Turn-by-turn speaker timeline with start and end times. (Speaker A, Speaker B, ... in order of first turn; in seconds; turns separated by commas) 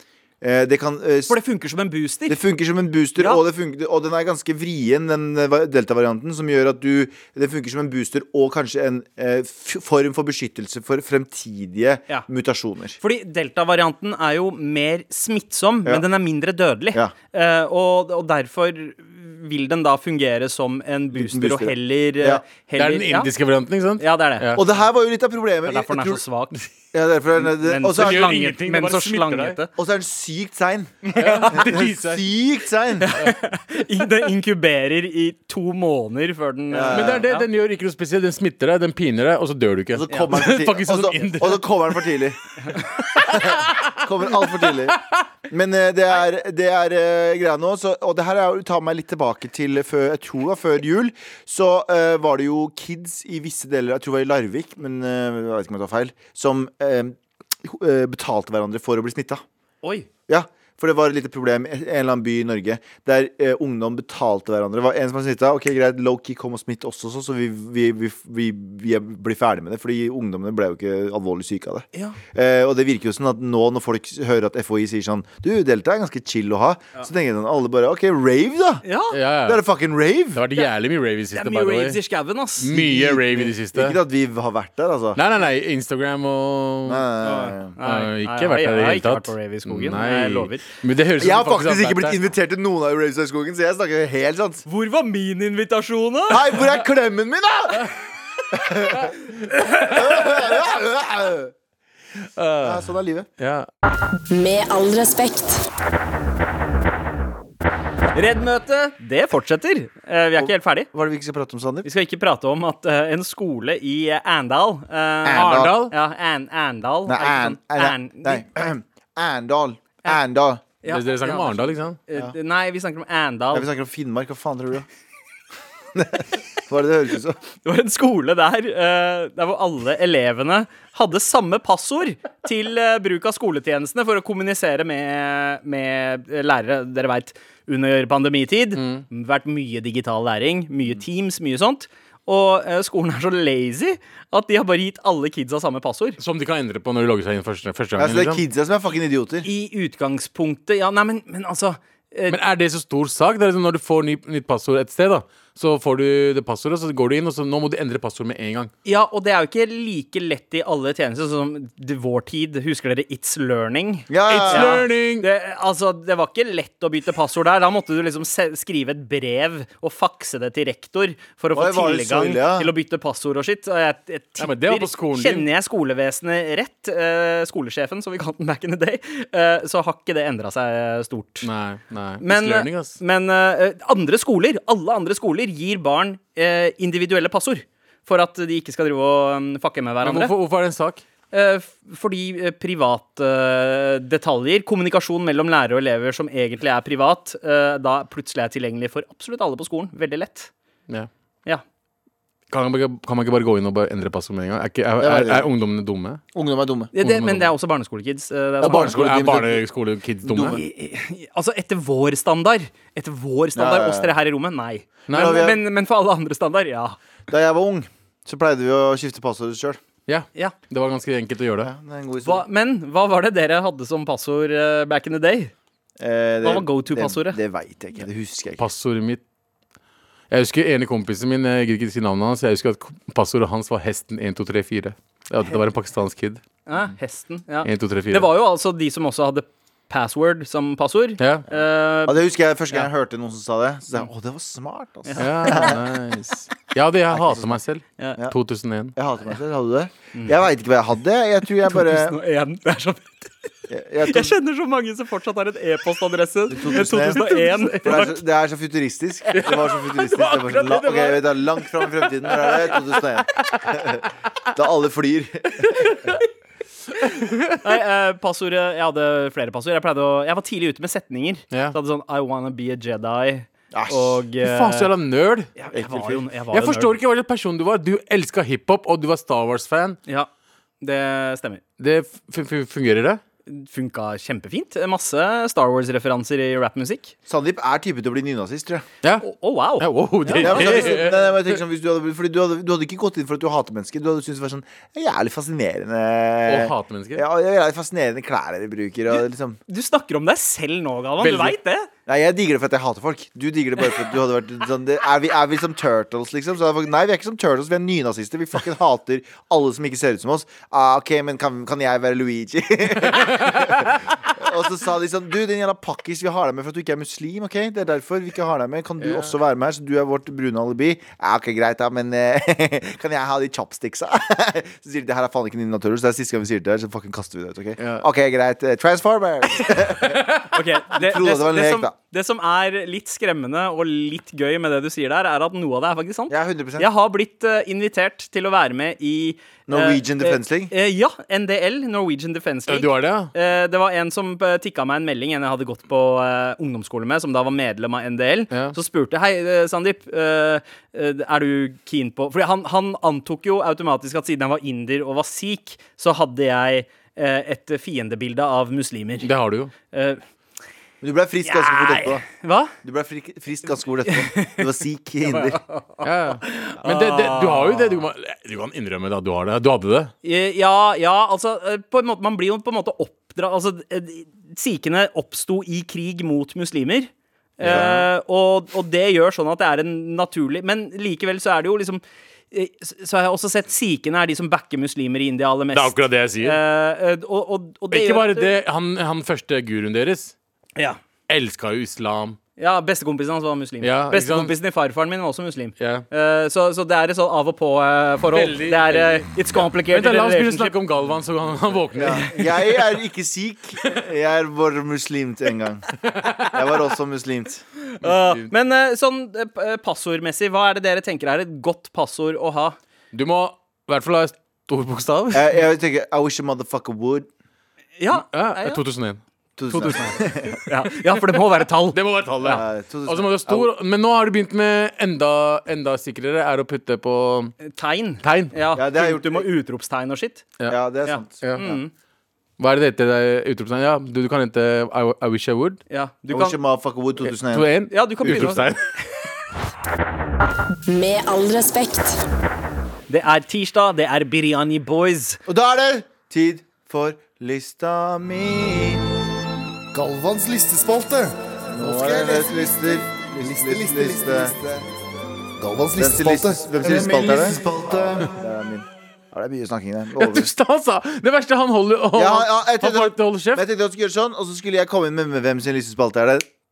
Speaker A: 0.4-1.4, Speaker B: 1.3-2.4, Speaker A: 2.3-13.0, Speaker B: 3.2-3.4, Speaker B: 13.0-23.3, Speaker A: 21.1-22.4, Speaker C: 22.8-24.6, Speaker B: 24.0-24.5, Speaker A: 24.5-26.2, Speaker B: 25.6-26.6, Speaker A: 26.9-28.5, Speaker B: 27.4-29.7, Speaker C: 27.8-29.6, Speaker A: 29.8-33.1, Speaker B: 31.0-31.6, Speaker C: 31.1-32.3, Speaker B: 33.0-37.5, Speaker A: 36.7-37.2, Speaker C: 36.9-42.0, Speaker A: 39.9-42.4, Speaker B: 40.1-40.4, Speaker C: 43.1-45.0, Speaker A: 43.2-59.4, Speaker B: 59.8-60.1, Speaker A: 60.3-78.8, Speaker B: 78.8-79.2, Speaker C: 79.1-79.6, Speaker A: 79.4-80.4, Speaker C: 80.3-82.0, Speaker B: 81.3-82.7, Speaker C: 82.6-84.0, Speaker A: 82.7-85.2, Speaker C: 85.2-87.1, Speaker A: 86.8-87.7, Speaker B: 87.2-90.7, Speaker C: 87.8-92.3, Speaker A: 91.2-94.6, Speaker B: 94.7-96.5, Speaker A: 96.3-97.9, Speaker A: 98.5-101.5, Speaker C: 102.4-103.7, Speaker A: 102.6-103.3, Speaker D: 104.3-105.7, Speaker B: 108.1-110.9, Speaker A: 110.3-111.9, Speaker B: 111.8-118.5, Speaker A: 115.2-115.9, Speaker C: 115.3-115.9, Speaker A: 117.0-120.6, Speaker B: 120.8-123.7, Speaker C: 120.9-122.0, Speaker A: 123.5-124.9, Speaker A: 125.9-127.4, Speaker B: 127.6-146.2, Speaker C: 138.7-139.0, Speaker C: 146.2-148.4, Speaker A: 148.0-149.5, Speaker B: 149.4-152.4, Speaker C: 152.3-158.7, Speaker B: 158.8-181.5, Speaker A: 164.1-164.8, Speaker C: 164.3-165.2, Speaker A: 171.5-172.7, Speaker C: 174.4-175.5, Speaker C: 181.4-183.0, Speaker B: 182.2-190.3, Speaker C: 190.0-191.0, Speaker B: 191.3-200.5, Speaker C: 202.5-206.2, Speaker A: 205.0-205.5, Speaker A: 206.3-206.9, Speaker B: 206.9-208.9, Speaker C: 207.0-207.5, Speaker A: 208.6-209.6, Speaker C: 208.6-210.6, Speaker A: 210.2-210.6, Speaker B: 210.4-217.0, Speaker A: 213.5-214.1, Speaker A: 215.1-215.6, Speaker C: 215.1-215.5, Speaker A: 217.3-219.8, Speaker C: 220.1-221.7, Speaker A: 221.6-222.4, Speaker B: 222.2-225.5, Speaker A: 226.0-228.7, Speaker B: 226.4-227.4, Speaker C: 228.6-229.2, Speaker C: 230.3-236.4, Speaker B: 236.7-242.2, Speaker C: 237.6-238.3, Speaker C: 241.2-241.4, Speaker A: 242.1-245.8, Speaker B: 245.0-245.8, Speaker C: 245.2-248.9, Speaker A: 247.1-247.6, Speaker A: 248.9-252.1, Speaker B: 251.7-253.5, Speaker A: 253.7-254.3, Speaker B: 254.0-258.2, Speaker A: 256.5-265.9, Speaker C: 256.7-258.1, Speaker C: 259.3-263.8, Speaker C: 267.0-267.6, Speaker B: 267.6-274.9, Speaker A: 273.7-274.2, Speaker C: 274.4-275.5, Speaker B: 275.6-276.9, Speaker A: 275.7-276.2, Speaker C: 276.5-280.0, Speaker B: 280.8-281.6, Speaker C: 281.8-283.2, Speaker B: 283.5-287.1, Speaker A: 287.3-288.9, Speaker B: 289.2-290.9, Speaker C: 289.8-291.6, Speaker A: 290.4-299.6, Speaker C: 296.4-297.2, Speaker B: 299.7-301.9, Speaker C: 301.2-301.5, Speaker A: 302.1-331.9, Speaker C: 313.2-314.0, Speaker C: 319.0-319.3, Speaker C: 327.8-328.0, Speaker C: 330.0-330.5, Speaker B: 330.5-359.3, Speaker A: 336.3-336.9, Speaker A: 339.7-340.7, Speaker C: 342.7-343.3, Speaker C: 359.2-359.7, Speaker B: 359.9-360.2, Speaker A: 361.0-362.2, Speaker B: 361.4-362.7, Speaker A: 362.8-365.6, Speaker B: 364.1-364.6, Speaker B: 365.2-368.0, Speaker C: 366.0-370.1, Speaker B: 370.2-388.5, Speaker C: 377.6-378.1, Speaker A: 377.6-378.0, Speaker C: 385.7-386.6, Speaker C: 387.9-390.3, Speaker C: 391.3-392.4, Speaker B: 392.6-400.8, Speaker C: 393.8-394.5, Speaker C: 395.8-396.0, Speaker C: 398.3-402.3, Speaker A: 401.9-407.6, Speaker B: 402.0-402.4, Speaker C: 406.0-406.8, Speaker B: 407.8-412.8, Speaker C: 408.0-408.5, Speaker C: 413.1-415.6, Speaker A: 415.3-417.3, Speaker B: 418.0-418.8, Speaker C: 418.1-419.2, Speaker A: 419.6-420.6, Speaker C: 419.7-420.0, Speaker B: 419.8-422.6, Speaker C: 421.9-427.6, Speaker A: 422.4-423.7, Speaker B: 427.6-430.4, Speaker C: 428.2-428.5, Speaker A: 428.7-429.5, Speaker A: 430.7-431.8, Speaker B: 431.1-431.9, Speaker C: 431.4-431.7, Speaker C: 432.6-435.8, Speaker B: 435.9-436.6, Speaker A: 436.3-438.6, Speaker C: 437.2-438.8, Speaker B: 437.9-438.7, Speaker D: 440.9-442.2, Speaker B: 443.1-445.4, Speaker A: 445.5-449.1, Speaker E: 449.9-454.6, Speaker A: 451.7-454.8, Speaker E: 455.6-457.8, Speaker A: 456.0-460.5, Speaker C: 460.1-463.6, Speaker A: 462.1-466.5